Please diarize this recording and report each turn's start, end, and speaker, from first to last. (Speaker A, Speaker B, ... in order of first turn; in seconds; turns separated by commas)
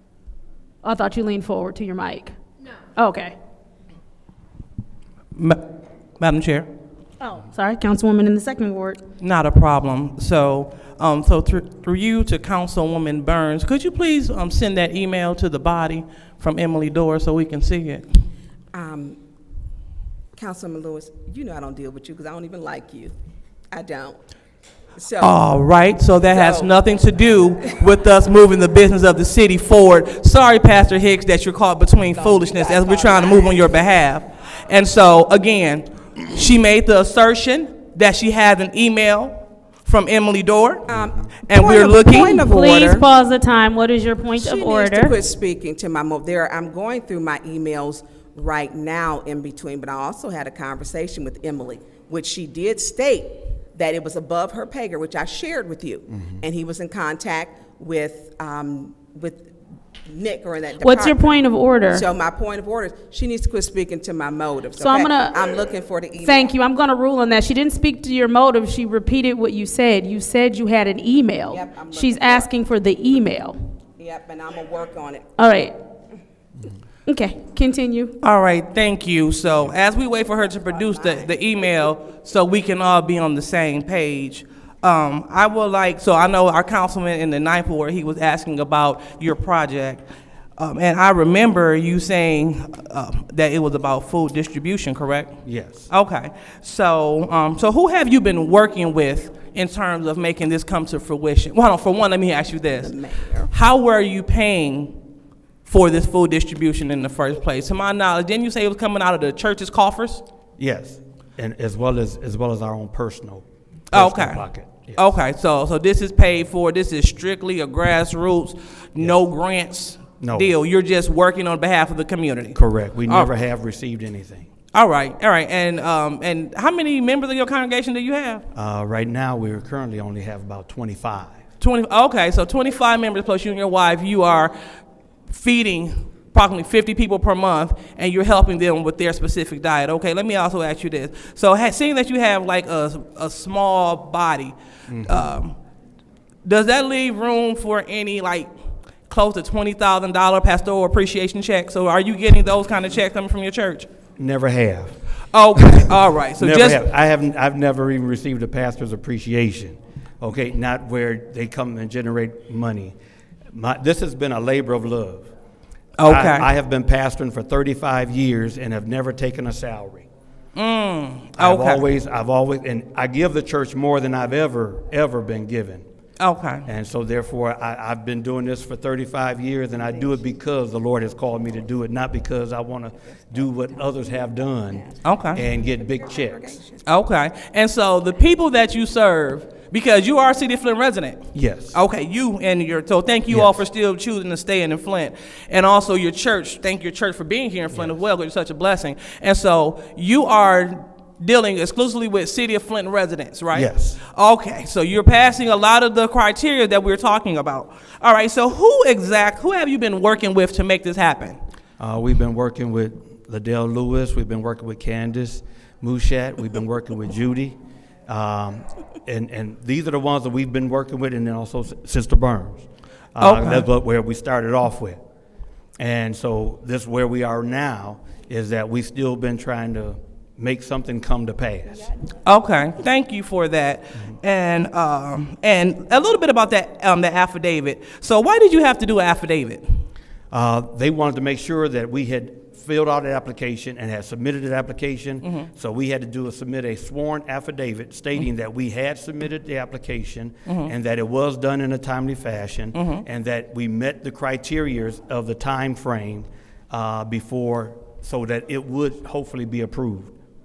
Speaker A: 0.8-2.3, Speaker A: 3.0-3.3, Speaker B: 5.3-5.6, Speaker B: 6.2-6.7, Speaker A: 7.2-9.0, Speaker B: 9.2-18.1, Speaker C: 18.7-19.2, Speaker C: 20.3-23.1, Speaker C: 23.7-24.2, Speaker C: 24.9-25.4, Speaker B: 25.2-40.9, Speaker C: 26.3-26.8, Speaker C: 32.1-33.6, Speaker C: 40.9-43.0, Speaker D: 40.9-41.3, Speaker B: 41.4-42.7, Speaker A: 42.4-45.1, Speaker C: 44.4-59.5, Speaker C: 60.0-66.5, Speaker A: 60.8-62.0, Speaker A: 64.8-65.4, Speaker A: 66.2-73.5, Speaker C: 71.5-72.5, Speaker C: 74.0-75.4, Speaker A: 75.4-75.7, Speaker A: 77.1-78.1, Speaker B: 78.2-90.0, Speaker C: 79.8-81.5, Speaker B: 90.6-102.9, Speaker D: 95.4-95.9, Speaker C: 102.8-103.5, Speaker B: 103.5-105.0, Speaker B: 105.6-110.2, Speaker D: 110.6-115.0, Speaker B: 113.9-114.4, Speaker B: 114.9-123.3, Speaker D: 120.2-120.5, Speaker D: 122.5-124.5, Speaker B: 124.7-128.4, Speaker D: 128.5-131.4, Speaker B: 131.6-134.5, Speaker B: 135.3-145.6, Speaker D: 144.9-145.3, Speaker B: 146.4-148.5, Speaker B: 149.1-153.9, Speaker D: 154.2-155.0, Speaker B: 155.3-156.9, Speaker D: 156.4-162.9, Speaker D: 163.5-165.3, Speaker B: 166.0-166.5, Speaker D: 166.0-170.1, Speaker B: 170.5-171.8, Speaker D: 171.4-175.8, Speaker B: 176.2-176.7, Speaker D: 176.7-186.6, Speaker B: 185.0-185.4, Speaker C: 185.7-186.8, Speaker B: 186.8-211.3, Speaker D: 191.3-191.8, Speaker D: 193.3-193.5, Speaker D: 197.7-198.0, Speaker D: 203.5-204.0, Speaker D: 211.8-217.6, Speaker D: 218.1-225.0, Speaker B: 223.2-223.7, Speaker D: 225.8-231.9, Speaker B: 232.2-239.6, Speaker D: 240.3-260.1, Speaker B: 250.4-250.7, Speaker B: 252.7-253.0